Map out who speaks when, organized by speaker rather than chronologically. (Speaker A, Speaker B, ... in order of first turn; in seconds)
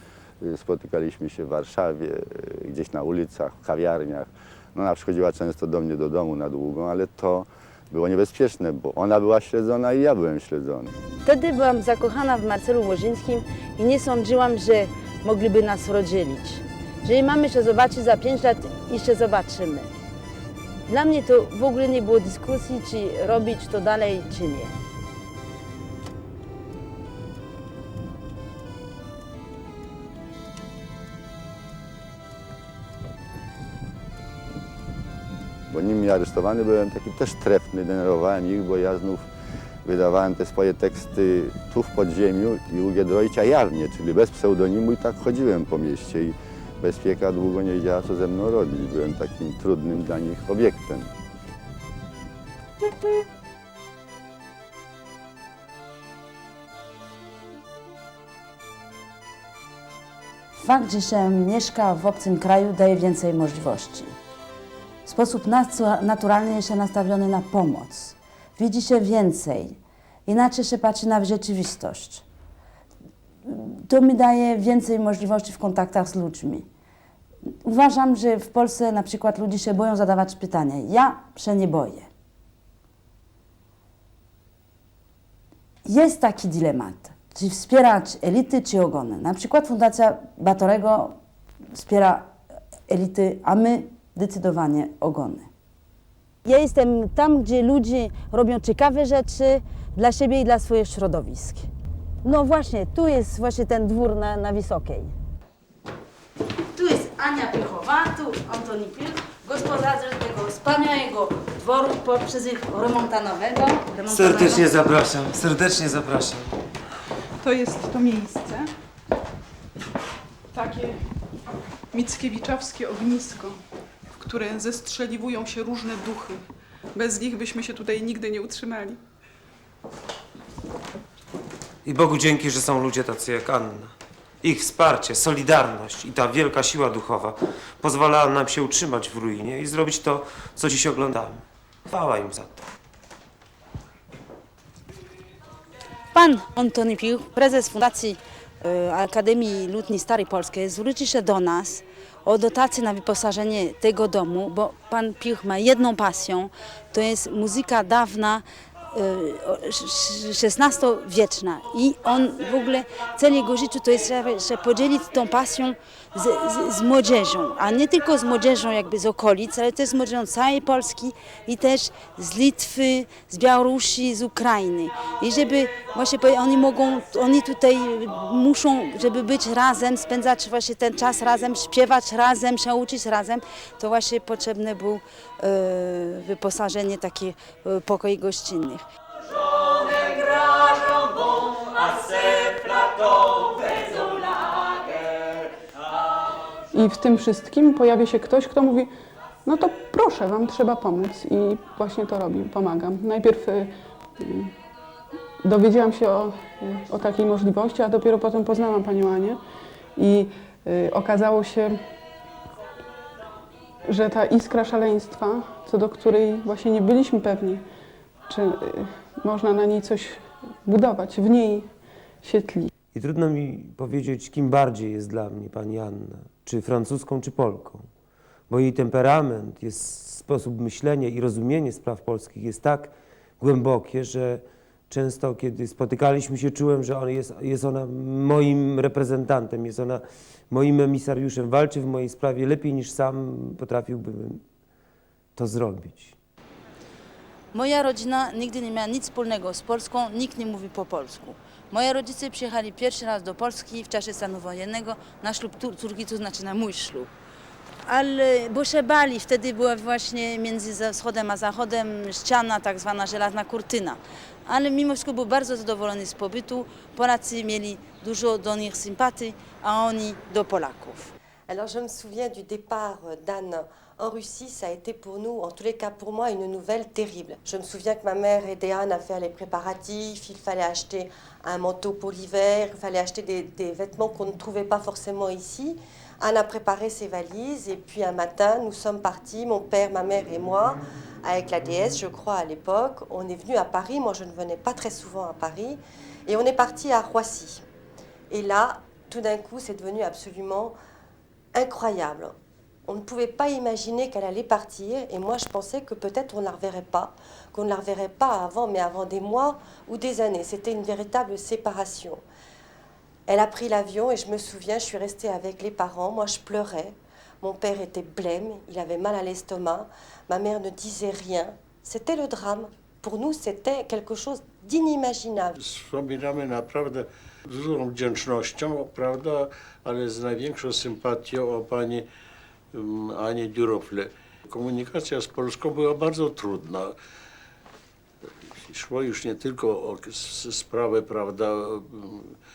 Speaker A: 0.4-10.9, 35.7-39.2, 39.8-51.1
Speaker B: 11.2-19.9, 20.9-24.7, 60.5-64.1, 65.0-72.2, 73.5-76.7, 77.6-82.1, 85.8-91.1, 91.7-92.3, 92.9-95.5, 96.4-101.7, 102.2-105.1, 106.7-114.8, 146.1-188.8, 247.5-257.1, 257.8-271.1
Speaker C: 114.1-116.5, 131.8-142.6, 222.9-227.9, 228.5-244.4, 245.3-246.1
Speaker D: 117.4-118.6, 120.5-120.9, 121.9-123.5, 124.2-126.4, 126.9-129.0, 196.7-198.9, 199.4-203.7, 204.2-204.5, 205.4-209.4, 210.0-211.8, 213.9-217.6, 218.3-221.7, 222.2-222.7
Speaker E: 271.5-297.6, 298.3-300.8, 301.5-302.3, 302.9-312.2, 313.3-325.6
Speaker F: 325.6-332.1, 332.7-336.9, 338.7-342.3